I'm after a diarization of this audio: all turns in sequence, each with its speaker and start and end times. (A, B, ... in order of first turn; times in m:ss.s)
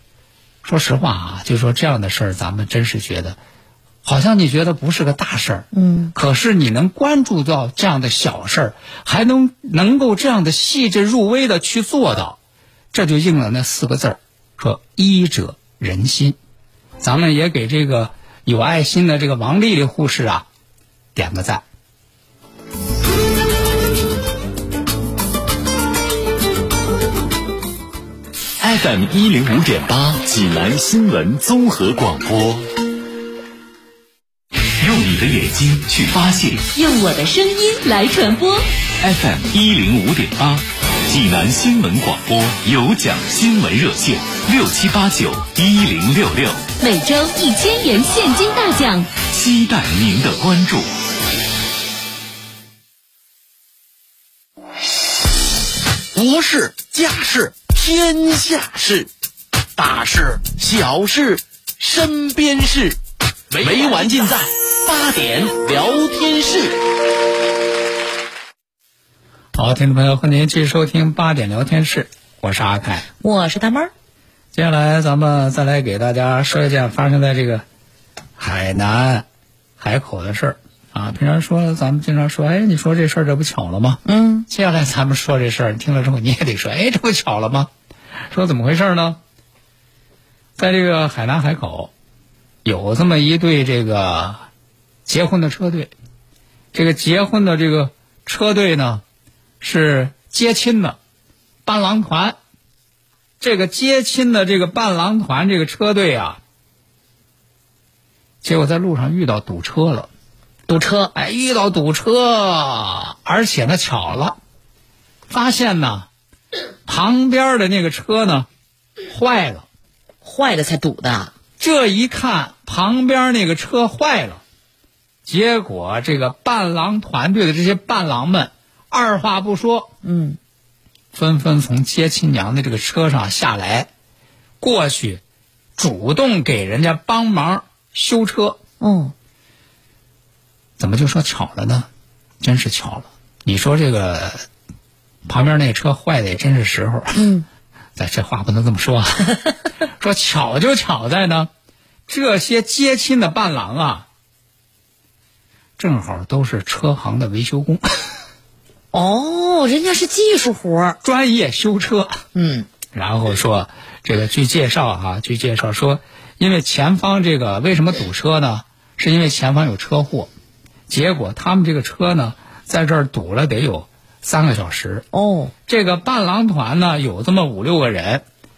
0:00.6-0:03.4 A
0:04.0-0:12.4 A
0:05.7-0:06.1 B
0:12.9-0:16.4 A
0:17.0-0:20.5 A
0:21.2-0:21.6 A
0:28.6-0:32.7 C
0:34.8-0:36.7 C
0:36.7-0:38.6 D
0:39.0-0:46.6 C
0:46.8-0:49.2 D
0:49.2-0:50.9 C
0:56.1-0:59.1 E
0:59.8-1:03.0 E
1:03.5-1:06.8 E
1:09.6-1:13.1 A
1:13.2-1:13.9 B
1:14.5-1:17.6 A
1:18.4-1:19.2 A
1:19.8-1:27.7 A
1:24.0-1:24.5 B
1:28.3-1:29.2 A
1:30.6-1:31.9 A
1:32.6-1:34.4 A
1:35.1-1:35.9 A
1:36.7-1:39.0 A
1:39.6-1:41.0 A
1:41.7-1:42.4 A
1:43.4-1:46.4 A
1:48.4-1:50.1 A
1:50.7-1:51.1 B
1:51.1-1:54.4 A
1:55.3-1:56.1 A
1:56.9-1:58.5 A
1:59.1-1:59.7 A
2:00.2-2:01.4 B
2:01.6-2:04.4 A
2:05.3-2:09.9 A
2:10.0-2:10.4 B
2:11.1-2:13.9 A
2:14.6-2:15.2 A
2:15.8-2:18.6 A
2:18.8-2:19.1 B
2:20.8-2:21.9 A
2:22.4-2:24.5 A
2:25.3-2:27.2 A
2:27.2-2:27.5 B
2:28.0-2:29.4 A
2:30.0-2:31.5 A
2:32.1-2:34.1 A
2:35.8-2:37.8 A
2:38.9-2:41.0 B
2:41.0-2:42.2 A
2:42.3-2:42.7 B
2:42.9-2:50.3 A
2:50.9-2:55.1 A
2:55.1-2:55.5 B
2:55.7-2:58.2 A